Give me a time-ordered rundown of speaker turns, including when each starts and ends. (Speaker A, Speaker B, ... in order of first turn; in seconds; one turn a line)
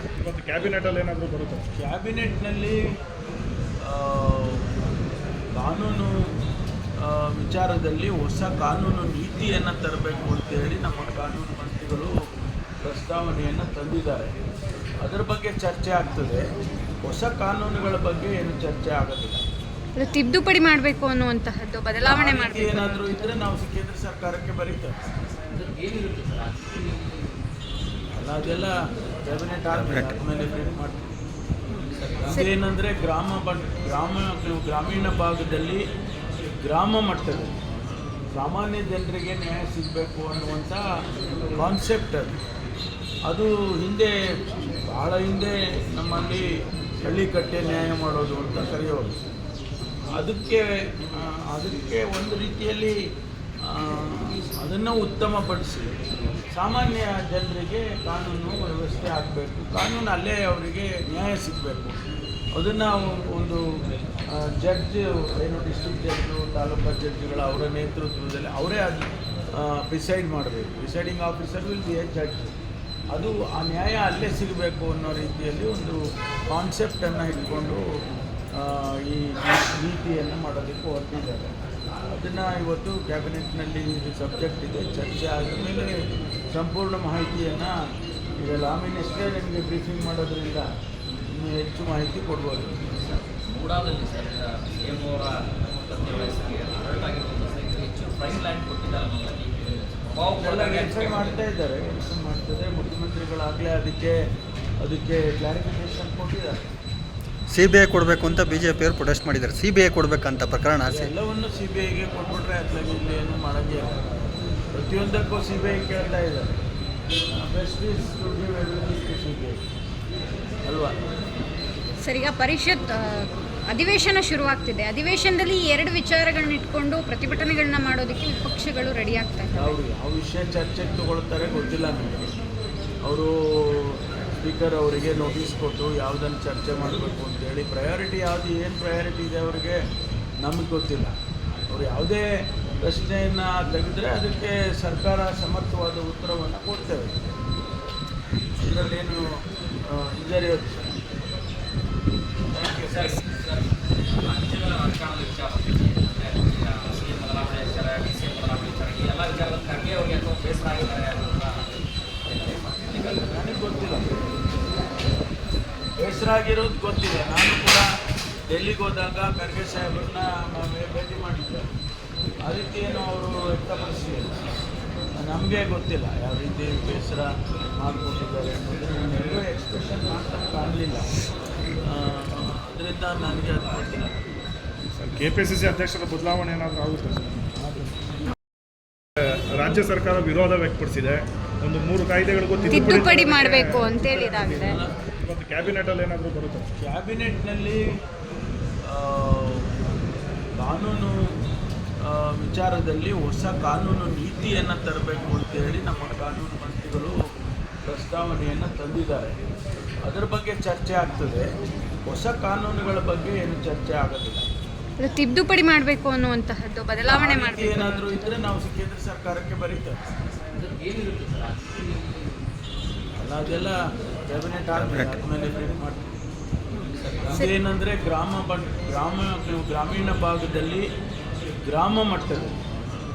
Speaker A: 0.2-1.6
Speaker B: 1.8-2.8
Speaker B: 3.8-4.6
Speaker B: 5.5-6.1
Speaker B: 7.0-12.1
Speaker B: 12.8-14.3
Speaker B: 15.0-16.4
Speaker B: 17.0-19.4
Speaker C: 19.9-23.1
Speaker B: 22.0-24.9
Speaker D: 25.5-26.8
Speaker B: 28.1-31.0
Speaker E: 29.7-30.1
Speaker B: 32.3-35.8
Speaker B: 36.6-37.5
Speaker B: 38.3-40.8
Speaker B: 41.5-42.3
Speaker B: 43.3-44.1
Speaker B: 44.8-46.5
Speaker B: 47.0-49.1
Speaker B: 50.1-52.9
Speaker B: 53.7-55.9
Speaker B: 56.5-62.0
Speaker B: 62.5-63.6
Speaker B: 64.3-69.0
Speaker B: 69.6-72.5
Speaker B: 73.1-77.8
Speaker B: 78.6-81.5
Speaker B: 82.1-86.0
Speaker B: 86.5-87.7
Speaker B: 88.4-90.7
Speaker B: 91.3-92.8
Speaker D: 92.8-101.3
Speaker B: 100.4-104.2
Speaker B: 104.8-106.6
Speaker E: 107.5-111.1
Speaker B: 110.9-114.0
Speaker B: 114.7-116.5
Speaker B: 117.4-119.6
Speaker B: 120.6-120.9
Speaker C: 122.0-129.7
Speaker B: 129.5-132.3
Speaker B: 133.0-139.8
Speaker B: 140.4-141.1
Speaker B: 141.7-142.2
Speaker B: 142.8-147.2
Speaker B: 148.6-149.2
Speaker B: 149.8-150.9
Speaker B: 152.5-153.2
Speaker D: 152.8-161.7
Speaker D: 162.2-163.2
Speaker B: 163.3-164.2
Speaker B: 166.0-167.8
Speaker B: 168.5-171.7
Speaker B: 172.4-174.3
Speaker B: 175.2-181.1
Speaker B: 181.8-184.1
Speaker D: 183.6-184.1
Speaker A: 185.0-187.4
Speaker B: 187.6-187.9
Speaker A: 189.6-196.7
Speaker C: 192.7-194.8
Speaker B: 194.6-194.9
Speaker B: 196.8-197.8
Speaker B: 198.8-199.7
Speaker B: 200.6-201.1
Speaker B: 202.0-207.2
Speaker B: 207.8-209.3
Speaker B: 210.0-211.5
Speaker B: 212.1-214.4
Speaker C: 215.0-218.2
Speaker B: 217.1-219.9
Speaker D: 220.5-221.7
Speaker B: 223.2-226.1
Speaker E: 224.7-225.2
Speaker D: 226.9-227.3
Speaker B: 227.3-230.8
Speaker B: 231.6-232.6